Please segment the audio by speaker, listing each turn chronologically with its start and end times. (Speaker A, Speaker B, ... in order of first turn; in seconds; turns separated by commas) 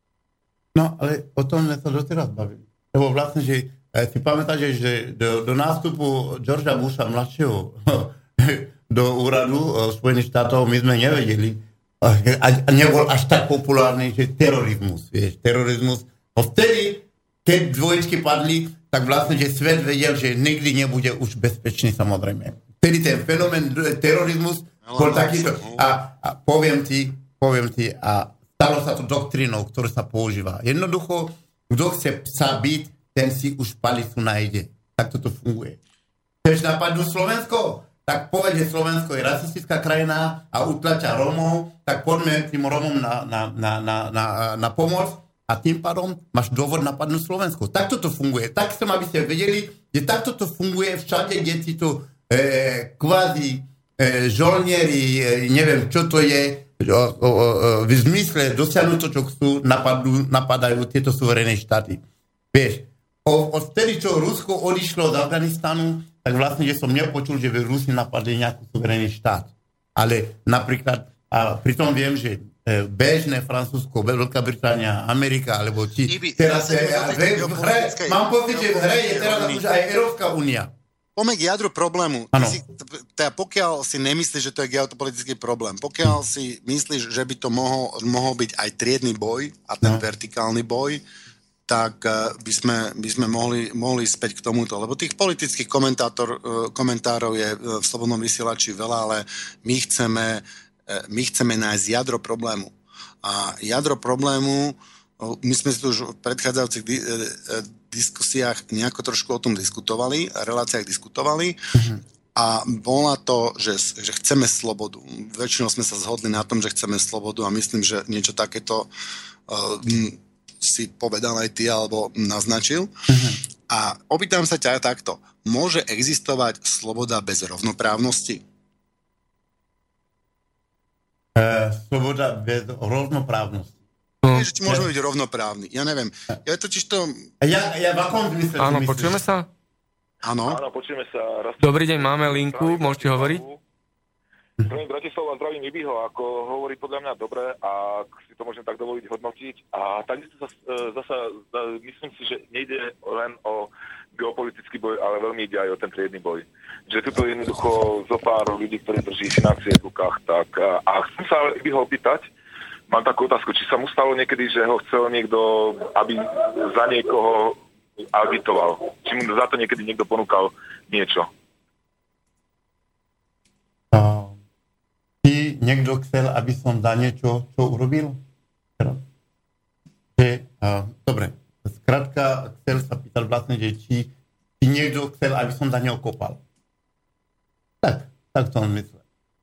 Speaker A: 0.7-35.8, Speaker B: 24.8-25.9, Speaker A: 36.4-80.7, Speaker B: 76.0-79.6, Speaker B: 81.2-91.0, Speaker A: 82.3-82.6, Speaker B: 91.7-111.6, Speaker A: 111.7-112.0, Speaker B: 112.3-118.9, Speaker B: 119.5-122.9, Speaker A: 123.1-123.4, Speaker B: 123.7-128.4, Speaker A: 131.3-133.7, Speaker C: 134.2-134.5, Speaker B: 134.3-137.2, Speaker A: 137.4-139.2, Speaker C: 138.6-139.5, Speaker B: 140.2-140.6, Speaker D: 140.5-143.6, Speaker C: 141.6-143.4, Speaker D: 144.6-162.3, Speaker D: 162.9-167.6, Speaker D: 168.1-171.3, Speaker A: 173.9-174.4, Speaker A: 175.2-178.2, Speaker A: 180.2-186.4, Speaker A: 187.8-189.0